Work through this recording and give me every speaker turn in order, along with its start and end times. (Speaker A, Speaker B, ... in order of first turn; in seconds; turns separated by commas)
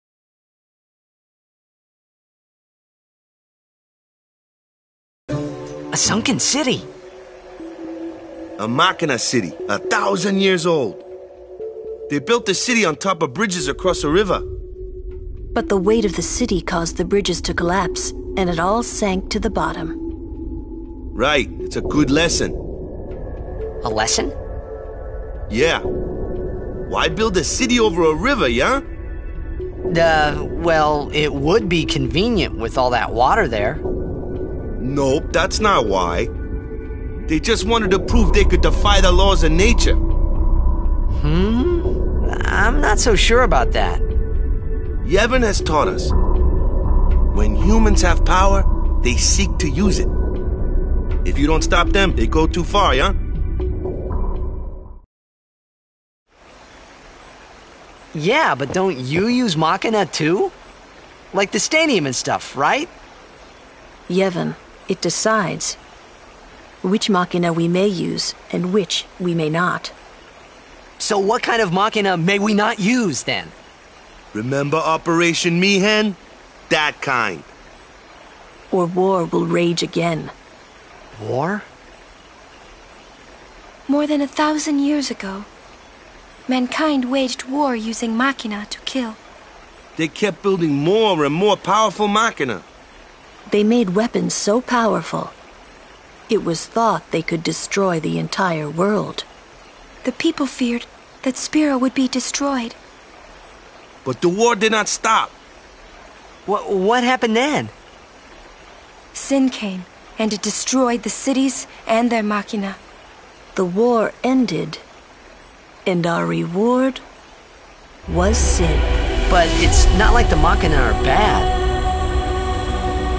Speaker A: 5.9-6.9, Speaker B: 8.6-11.0, Speaker B: 12.1-14.4, Speaker C: 15.5-19.9, Speaker B: 21.1-22.6, Speaker A: 23.8-24.3, Speaker B: 25.5-25.8, Speaker B: 26.9-28.8, Speaker A: 29.9-33.8, Speaker B: 34.8-36.3, Speaker B: 37.3-40.0, Speaker A: 41.2-44.0, Speaker B: 45.0-46.1, Speaker B: 47.3-50.1, Speaker B: 51.2-53.2, Speaker A: 58.1-60.5, Speaker A: 61.3-62.9, Speaker C: 64.1-65.8, Speaker C: 66.8-69.9, Speaker A: 71.0-73.5, Speaker B: 74.3-76.2, Speaker B: 76.7-77.5, Speaker C: 78.7-80.3, Speaker A: 81.2-81.7, Speaker D: 83.9-85.5, Speaker D: 86.5-89.2, Speaker B: 90.0-92.6, Speaker C: 93.5-95.3, Speaker C: 96.3-99.2, Speaker D: 100.0-102.8, Speaker B: 104.0-105.3, Speaker A: 106.5-107.7, Speaker D: 109.1-112.8, Speaker C: 113.5-114.8, Speaker C: 115.8-117.0, Speaker C: 118.1-118.9, Speaker A: 119.3-121.5